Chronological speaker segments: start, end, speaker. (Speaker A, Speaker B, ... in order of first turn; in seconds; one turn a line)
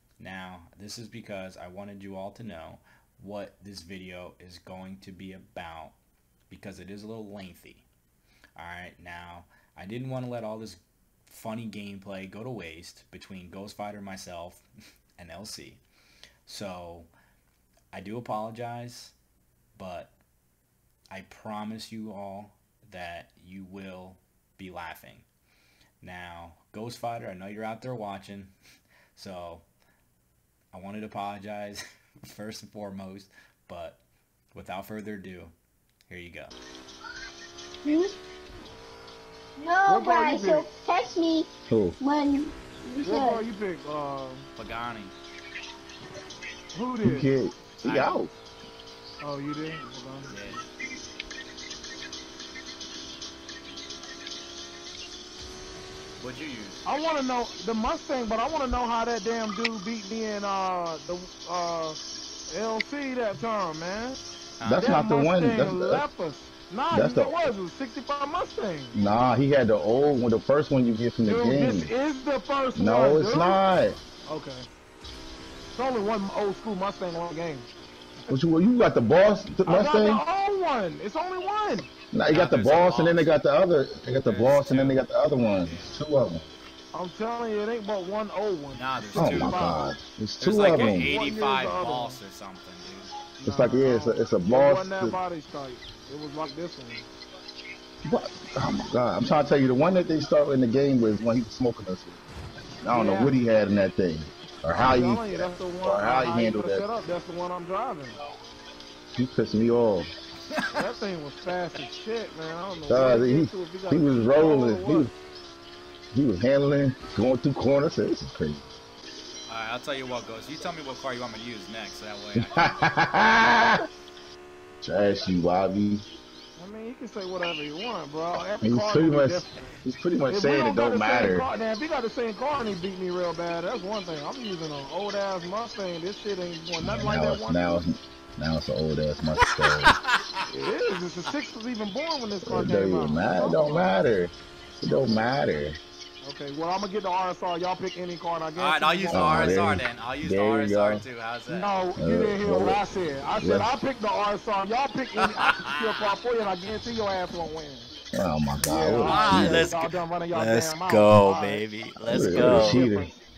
Speaker A: 0.2-6.0
Speaker A: 6.5-7.8
Speaker A: 8.6-14.7
Speaker A: 15.2-15.8
Speaker A: 16.5-17.1
Speaker A: 17.9-19.1
Speaker A: 19.8-20.1
Speaker A: 21.1-25.3
Speaker A: 26.0-28.6
Speaker A: 29.1-29.7
Speaker A: 30.7-34.0
Speaker A: 34.5-35.5
Speaker A: 36.1-36.5
Speaker B: 37.8-38.1
Speaker B: 39.6-41.5
Speaker C: 39.9-40.7
Speaker D: 41.7-42.0
Speaker B: 42.0-43.4
Speaker C: 43.0-44.5
Speaker A: 44.6-45.1
Speaker C: 46.7-47.3
Speaker D: 47.0-48.3
Speaker A: 47.8-48.2
Speaker C: 49.2-50.6
Speaker A: 50.3-50.7
Speaker A: 56.2-56.8
Speaker C: 56.9-62.0
Speaker C: 62.5-64.2
Speaker A: 64.6-64.9
Speaker D: 64.6-66.0
Speaker C: 64.7-69.0
Speaker D: 66.9-67.5
Speaker D: 68.9-71.9
Speaker C: 71.2-73.6
Speaker D: 72.8-74.0
Speaker C: 74.3-74.7
Speaker C: 75.7-77.7
Speaker D: 78.3-80.2
Speaker C: 79.7-81.9
Speaker D: 82.1-86.5
Speaker A: 82.3-83.3
Speaker A: 84.2-86.0
Speaker C: 86.9-89.8
Speaker A: 88.7-89.7
Speaker D: 89.2-91.1
Speaker A: 90.4-93.1
Speaker C: 90.7-92.2
Speaker C: 93.4-97.1
Speaker D: 93.4-95.2
Speaker D: 98.0-102.2
Speaker D: 102.8-106.8
Speaker C: 102.9-103.4
Speaker C: 104.8-108.2
Speaker D: 109.2-110.1
Speaker A: 110.5-110.8
Speaker C: 110.7-115.1
Speaker D: 112.9-115.1
Speaker D: 116.1-118.7
Speaker A: 119.5-122.6
Speaker D: 122.4-123.8
Speaker D: 124.8-126.0
Speaker C: 126.6-137.8
Speaker D: 128.6-131.5
Speaker D: 136.8-139.9
Speaker A: 139.6-140.2
Speaker C: 140.5-143.9
Speaker D: 142.4-145.8
Speaker C: 146.2-149.6
Speaker A: 148.6-151.7
Speaker D: 149.1-151.0
Speaker C: 151.5-157.9
Speaker D: 152.0-152.8
Speaker D: 153.4-153.7
Speaker A: 155.2-156.1
Speaker D: 158.1-159.7
Speaker C: 158.7-161.6
Speaker A: 159.0-162.8
Speaker D: 162.0-163.1
Speaker C: 162.3-163.2